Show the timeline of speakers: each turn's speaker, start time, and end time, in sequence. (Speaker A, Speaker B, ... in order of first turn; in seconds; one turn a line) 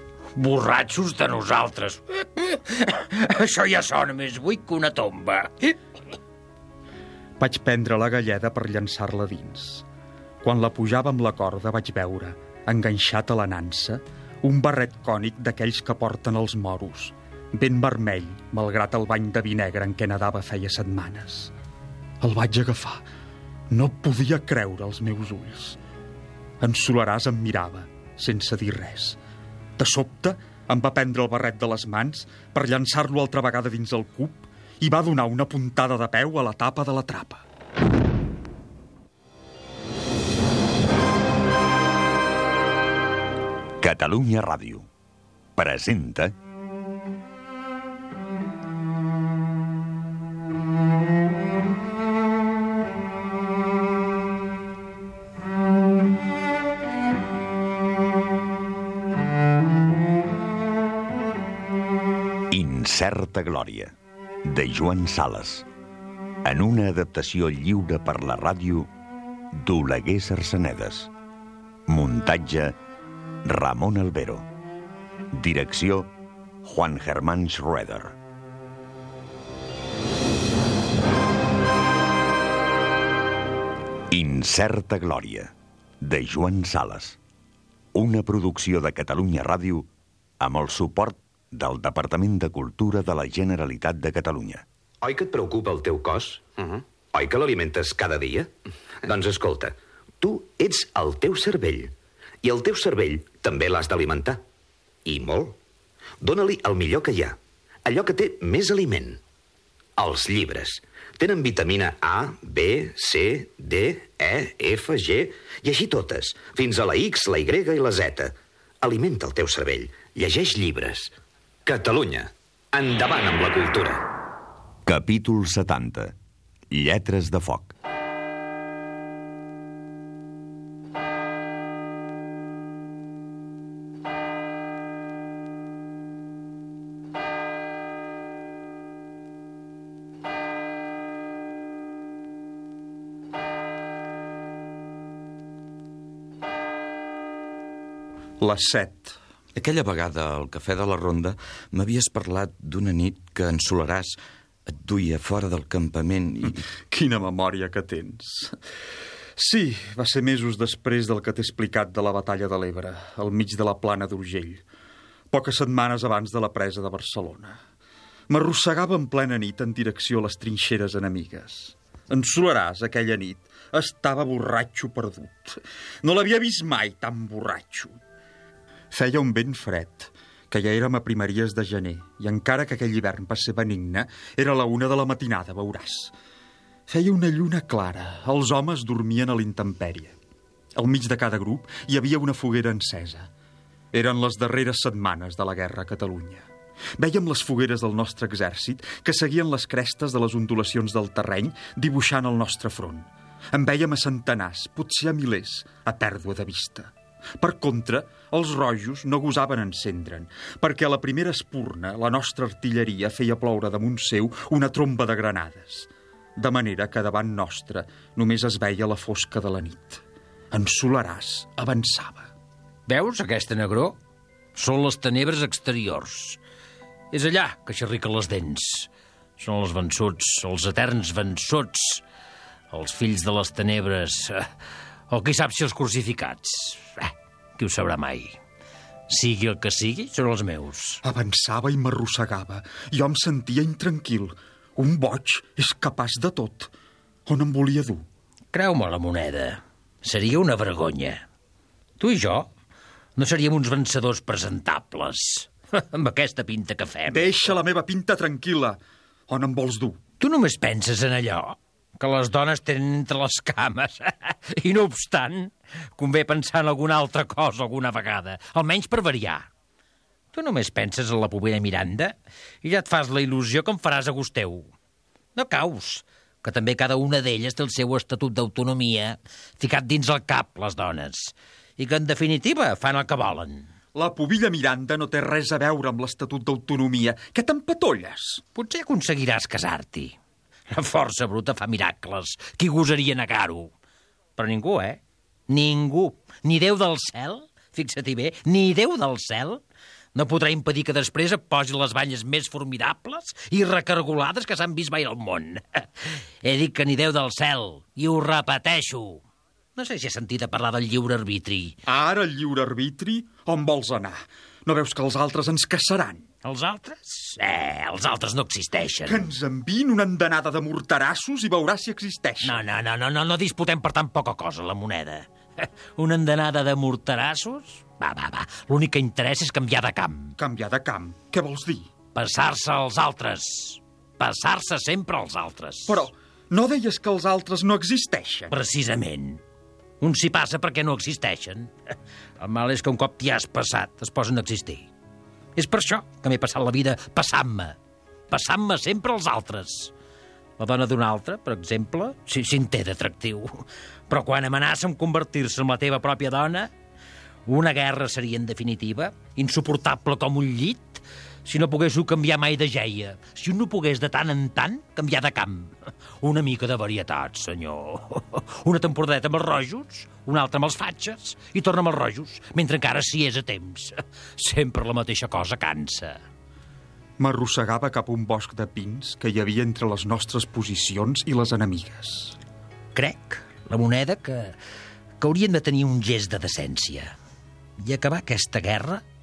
Speaker A: 0.3-5.7
Speaker B: 7.4-9.8
Speaker B: 10.4-21.5
Speaker B: 22.2-23.0
Speaker B: 23.7-25.8
Speaker B: 26.6-29.2
Speaker B: 29.8-37.4
Speaker C: 43.8-44.9
Speaker C: 45.6-46.3
Speaker C: 62.5-63.9
Speaker C: 64.5-65.7
Speaker C: 66.5-68.9
Speaker C: 69.6-71.1
Speaker C: 71.9-72.8
Speaker C: 73.5-74.5
Speaker C: 75.3-76.1
Speaker C: 76.6-78.2
Speaker C: 84.1-87.2
Speaker C: 87.9-89.9
Speaker C: 90.4-94.7
Speaker D: 95.0-98.5
Speaker D: 99.0-101.9
Speaker D: 102.4-104.4
Speaker D: 105.1-105.6
Speaker D: 106.2-109.2
Speaker D: 110.0-121.1
Speaker D: 121.7-124.0
Speaker C: 124.9-126.1
Speaker C: 126.7-127.7
Speaker B: 148.4-149.2
Speaker E: 149.6-156.6
Speaker B: 156.9-158.5
Speaker B: 159.4-164.6
Speaker B: 165.3-167.6
Speaker B: 168.3-178.0
Speaker B: 178.9-186.1
Speaker B: 186.9-190.2
Speaker B: 190.8-193.3
Speaker B: 193.9-196.5
Speaker B: 197.0-220.0
Speaker B: 220.5-222.3
Speaker A: 222.9-224.0
Speaker A: 224.6-226.4
Speaker A: 227.1-232.0
Speaker A: 232.7-234.5
Speaker A: 235.1-238.4
Speaker A: 239.1-241.0
Speaker B: 241.0-246.7
Speaker B: 247.3-248.1
Speaker A: 248.5-251.2
Speaker A: 252.0-252.5
Speaker A: 253.2-257.4
Speaker B: 257.1-258.8
Speaker B: 259.3-260.0
Speaker A: 260.2-269.5
Speaker A: 270.3-274.7
Speaker A: 275.4-283.7
Speaker B: 283.9-288.4
Speaker A: 288.6-290.1
Speaker A: 290.7-293.7
Speaker A: 294.4-299.6
Speaker A: 300.1-309.2
Speaker A: 309.8-311.8
Speaker B: 311.9-316.2
Speaker A: 316.4-319.3
Speaker B: 319.1-322.6
Speaker A: 322.4-330.4
Speaker B: 330.4-331.9
Speaker A: 332.1-336.1
Speaker B: 335.9-338.5
Speaker A: 338.5-339.4
Speaker A: 340.0-341.7
Speaker A: 342.4-344.9
Speaker A: 345.6-347.8
Speaker A: 348.3-349.9
Speaker A: 350.6-356.7
Speaker A: 357.5-376.2
Speaker B: 377.2-382.4
Speaker A: 382.9-384.6
Speaker A: 385.2-387.1
Speaker A: 387.8-389.0